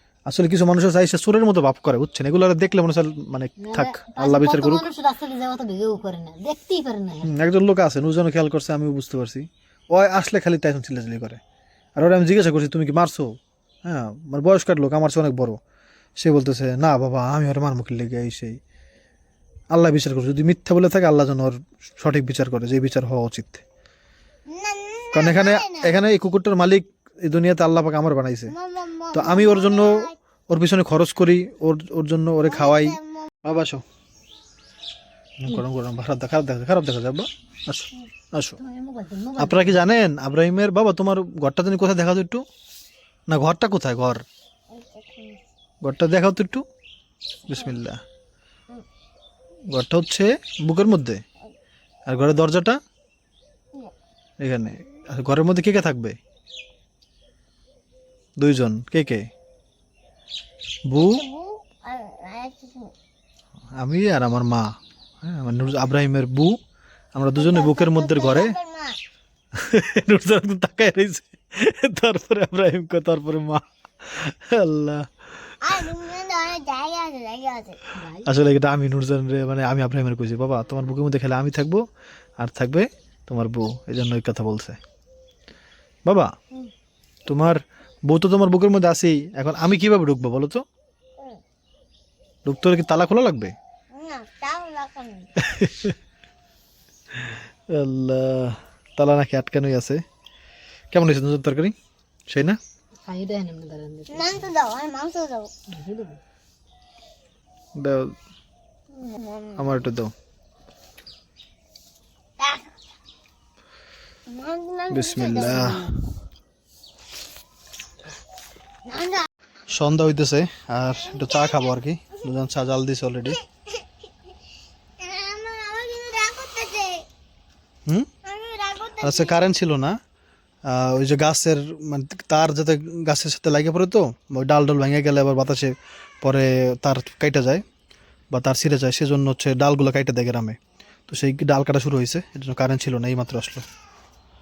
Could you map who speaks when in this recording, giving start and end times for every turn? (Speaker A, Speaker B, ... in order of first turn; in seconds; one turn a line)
Speaker A: 0.2-4.8
Speaker B: 3.6-7.3
Speaker A: 7.2-11.4
Speaker A: 12.0-15.6
Speaker A: 16.2-18.6
Speaker A: 19.7-23.6
Speaker C: 24.5-25.9
Speaker A: 25.1-28.5
Speaker C: 28.5-30.1
Speaker A: 29.1-33.8
Speaker C: 32.5-33.3
Speaker A: 35.4-38.6
Speaker B: 38.6-39.8
Speaker A: 39.4-42.4
Speaker A: 43.3-44.2
Speaker C: 44.7-45.4
Speaker A: 45.8-46.6
Speaker A: 47.5-48.0
Speaker A: 49.7-51.2
Speaker A: 52.1-52.8
Speaker A: 54.4-56.2
Speaker A: 58.4-59.3
Speaker A: 60.9-61.2
Speaker C: 61.0-62.9
Speaker A: 63.8-64.6
Speaker A: 65.2-66.5
Speaker A: 67.1-68.6
Speaker C: 67.3-69.0
Speaker A: 69.5-75.8
Speaker C: 75.6-77.8
Speaker B: 77.9-78.4
Speaker A: 78.2-81.8
Speaker A: 82.4-84.8
Speaker A: 87.3-90.6
Speaker A: 92.5-93.5
Speaker C: 93.9-95.3
Speaker A: 95.4-95.9
Speaker A: 97.1-100.0
Speaker A: 100.9-101.7
Speaker A: 102.3-102.6
Speaker B: 103.0-104.5
Speaker C: 104.1-105.5
Speaker B: 105.7-106.2
Speaker A: 107.8-108.1
Speaker C: 108.9-109.8
Speaker A: 109.5-110.1
Speaker C: 112.4-112.7
Speaker C: 114.3-115.7
Speaker A: 114.9-115.9
Speaker B: 115.3-115.9
Speaker C: 118.8-119.3
Speaker A: 119.7-123.4
Speaker C: 121.0-121.7
Speaker C: 123.2-123.8
Speaker C: 125.0-127.0
Speaker C: 128.2-129.4
Speaker A: 129.0-130.0
Speaker A: 130.7-137.6
Speaker A: 138.3-143.6